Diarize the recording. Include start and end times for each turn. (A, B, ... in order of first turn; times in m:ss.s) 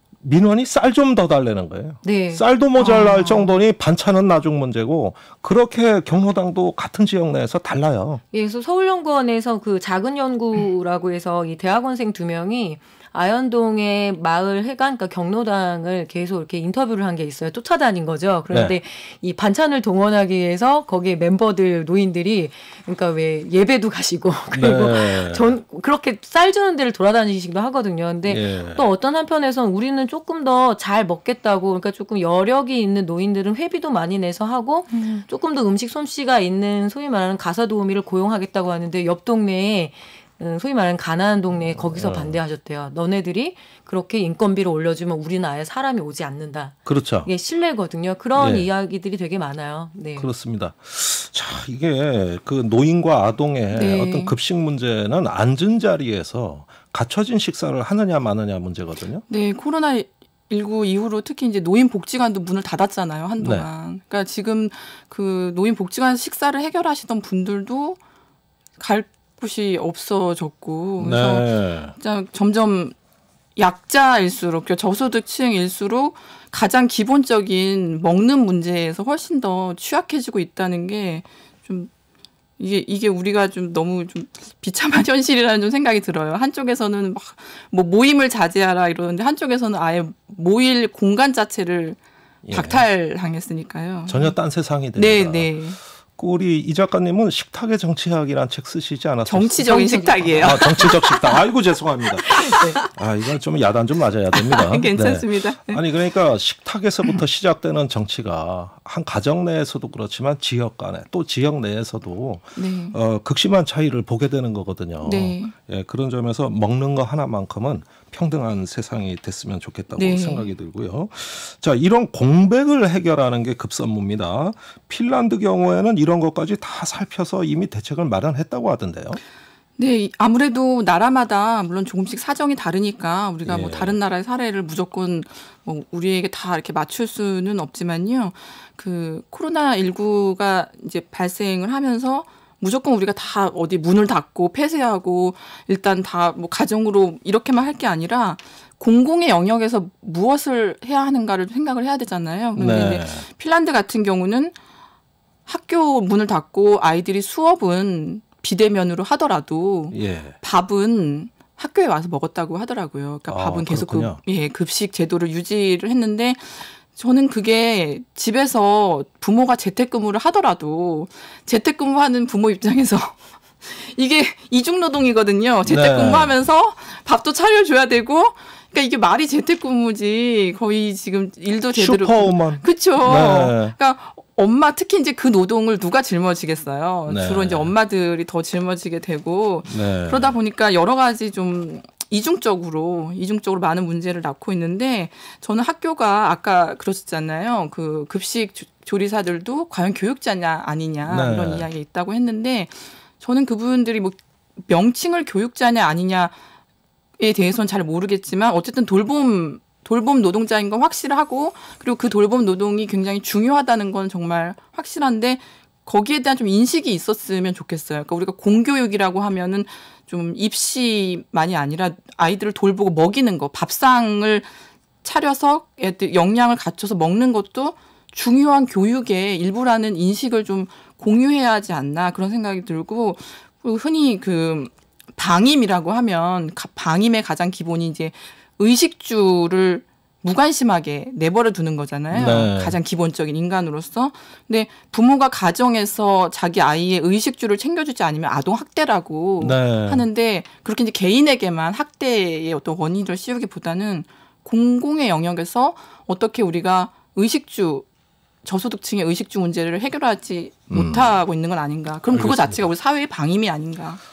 0:00.2-0:08.2 A
0:02.0-0:02.4 B
0:02.8-0:03.4 C
0:08.3-0:50.3 B
0:18.5-0:18.8 A
0:24.5-0:25.5 A
0:28.3-0:28.8 A
0:34.9-0:35.2 C
0:41.9-0:42.4 A
0:46.8-0:47.3 A
0:48.4-0:48.7 A
0:50.2-0:59.2 A
0:53.7-0:54.3 C
0:59.3-1:08.0 C
1:03.4-1:03.7 A
1:08.8-1:12.9 C
1:11.0-1:11.9 A
1:13.6-1:21.9 C
1:22.6-1:34.3 C
1:32.4-1:32.8 A
1:34.1-1:35.5 A
1:34.9-1:35.8 C
1:36.2-2:09.2 A
1:39.2-1:41.4 C
1:39.6-1:40.9 B
1:42.0-1:42.9 C
1:42.3-1:42.8 B
1:44.3-1:45.8 C
1:52.6-1:53.0 C
1:55.0-1:55.5 C
2:00.0-2:00.5 C
2:09.8-2:34.5 C
2:13.4-2:14.0 A
2:32.6-2:33.2 A
2:35.4-3:26.3 C
2:39.9-2:40.3 A
2:43.3-2:44.2 A
2:55.6-2:56.3 A
3:01.7-3:03.7 A
3:07.0-3:07.7 A
3:09.7-3:10.4 A
3:21.1-3:21.7 A
3:27.2-3:44.5 C
3:45.0-4:17.8 C
4:02.1-4:02.8 A
4:09.4-4:10.0 A
4:18.4-4:24.0 C
4:20.7-4:21.1 A
4:22.1-4:22.6 A